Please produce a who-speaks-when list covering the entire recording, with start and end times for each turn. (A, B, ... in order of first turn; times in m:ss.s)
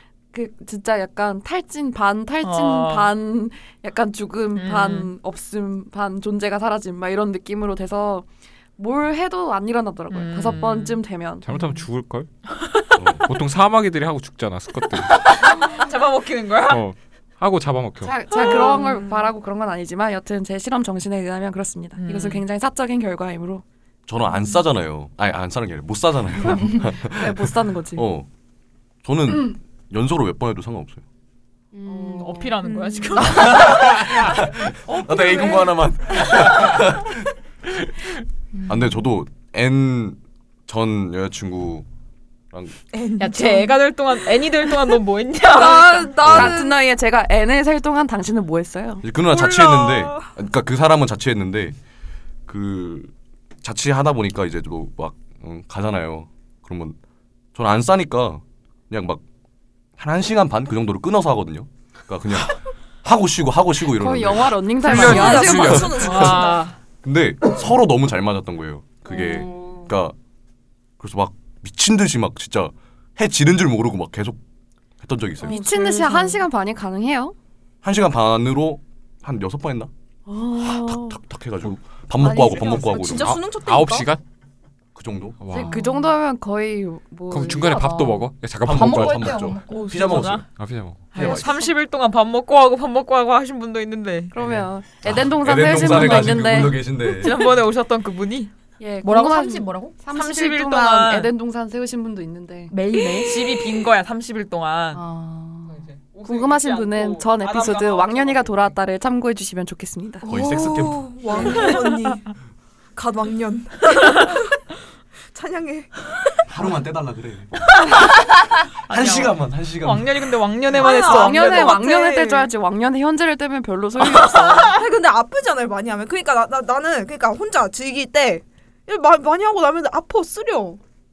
0:00.3-0:11.4 A
0:02.4-0:03.1 B
0:04.6-0:05.1 B
0:10.1-0:11.8 B
0:11.4-0:12.3 C
0:12.6-0:13.0 B
0:13.0-0:13.3 D
0:13.2-0:15.2 C
0:15.1-0:16.8 B
0:16.7-0:18.2 C
0:18.0-0:23.6 A
0:18.3-0:19.3 E
0:18.3-0:18.8 B
0:22.0-0:22.4 B
0:24.1-0:28.3 D
0:26.8-0:28.0 A
0:29.0-0:31.0 D
0:31.7-0:32.5 F
0:31.9-0:33.8 B
0:32.0-0:32.5 A
0:32.6-0:33.6 E
0:33.2-0:38.1 D
0:35.3-0:35.6 E
0:38.5-0:39.0 F
0:38.7-0:41.9 D
0:42.5-0:42.8 D
0:42.9-0:43.8 E
0:43.2-0:46.1 B
0:45.5-0:46.7 E
0:46.2-0:49.0 A
0:46.2-0:46.6 D
0:49.0-0:51.8 D
0:49.3-0:50.3 E
0:52.5-0:57.0 D
0:57.5-0:59.2 D
1:00.0-1:06.4 D
1:03.9-1:05.9 A
1:04.8-1:05.9 C
1:04.9-1:06.7 E
1:05.9-1:06.8 B
1:07.0-1:10.2 D
1:09.1-1:09.5 F
1:11.0-1:14.4 D
1:15.0-1:15.6 D
1:15.4-1:17.3 A
1:15.4-1:16.3 E
1:17.8-1:19.9 D
1:20.3-1:21.2 A
1:20.6-1:23.4 D
1:22.2-1:23.2 F
1:22.2-1:24.1 E
1:23.2-1:24.2 C
1:24.9-1:25.4 D
1:25.4-1:25.8 C
1:25.5-1:27.6 A
1:25.6-1:25.8 F
1:27.3-1:29.4 C
1:27.3-1:29.9 F
1:28.6-1:30.5 D
1:29.7-1:30.4 B
1:30.4-1:31.1 C
1:31.1-1:34.3 B
1:31.1-1:31.5 D
1:34.3-1:36.8 A
1:35.0-1:37.4 D
1:37.0-1:38.5 B
1:38.8-1:42.7 A
1:39.0-1:40.0 F
1:40.1-1:41.3 B
1:42.7-1:43.7 F
1:43.0-1:45.0 B
1:44.9-1:45.8 F
1:45.7-1:48.8 B
1:46.2-1:50.3 A
1:50.2-1:52.3 E
1:50.3-1:51.2 D
1:53.0-1:54.6 E
1:55.3-1:55.9 E
1:56.4-1:58.0 D
1:58.9-2:00.3 D
1:58.9-2:01.8 B
2:00.7-2:02.5 E
2:00.8-2:04.8 A
2:04.0-2:10.8 E